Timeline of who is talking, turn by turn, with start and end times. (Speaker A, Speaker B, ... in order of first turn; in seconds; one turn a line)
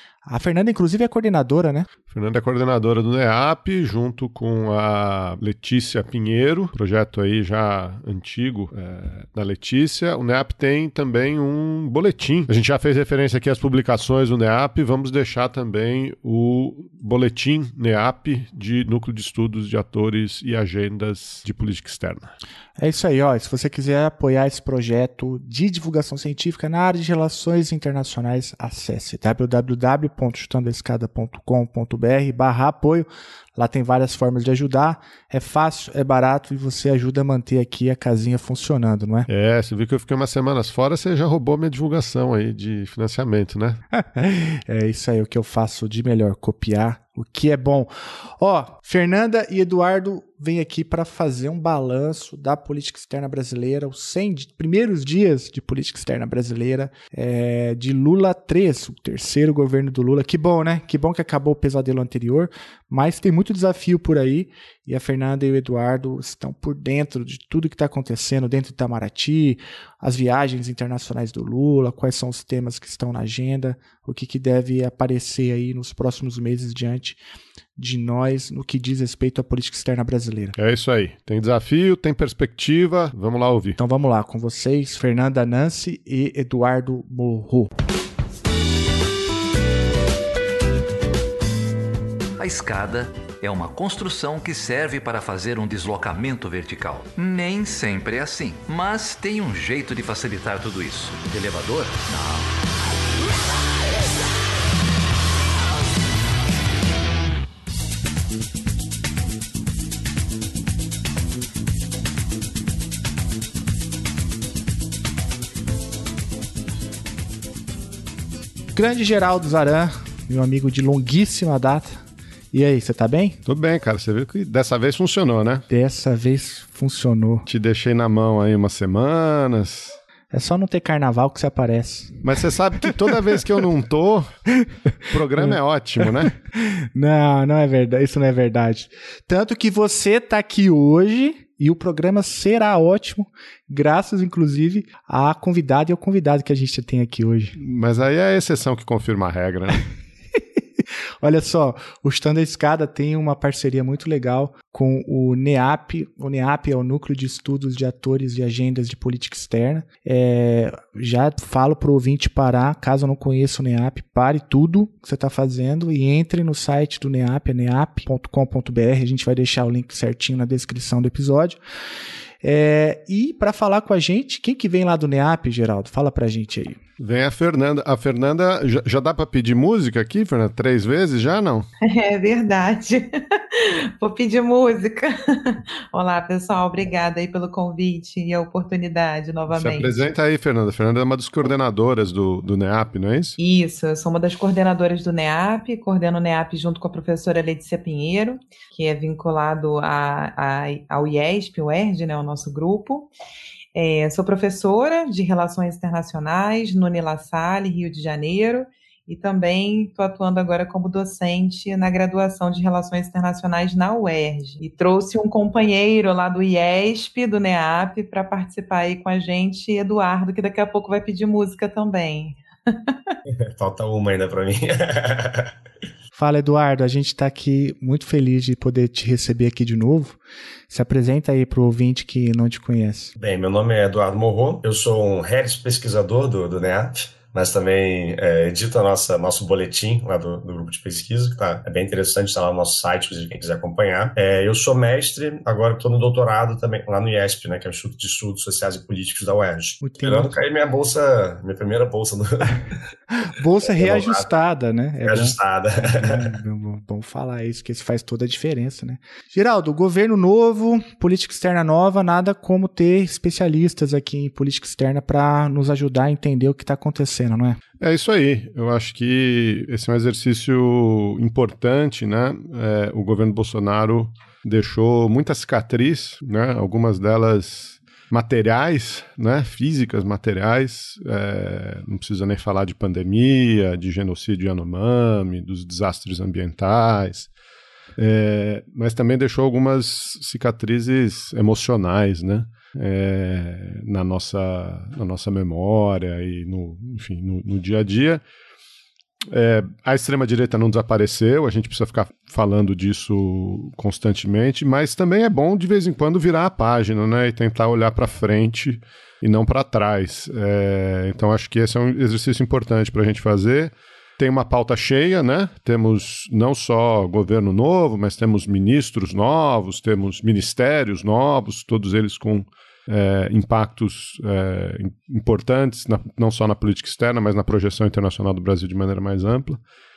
Speaker A: 0.2-1.9
Speaker B: 2.1-22.3
Speaker A: 22.8-39.3
Speaker B: 39.3-43.8
Speaker A: 43.9-77.2
Speaker A: 77.8-80.5
Speaker B: 80.6-83.8
Speaker A: 83.8-87.7
Speaker C: 92.4-102.5
Speaker A: 118.8-123.4
Speaker B: 123.5-125.7
Speaker A: 125.7-127.5
Speaker B: 127.5-129.9
Speaker A: 130.3-132.2
Speaker B: 132.2-134.3
Speaker A: 133.1-133.4
Speaker B: 135.1-136.3
Speaker A: 135.3-147.5
Speaker B: 147.6-149.8
Speaker A: 151.2-171.6
Speaker A: 172.4-176.8
Speaker B: 177.0-181.7
Speaker D: 181.8-190.1
Speaker B: 189.5-193.4
Speaker D: 193.4-203.1
Speaker D: 203.8-223.1
Speaker E: 223.3-225.5
Speaker A: 226.1-230.2
Speaker A: 230.7-233.1
Speaker E: 233.2-252.8
Speaker A: 249.8-250.3
Speaker A: 253.2-267.6
Speaker E: 253.6-254.3
Speaker E: 255.0-256.3
Speaker B: 267.8-287.3
Speaker B: 288.0-298.2
Speaker B: 299.3-329.6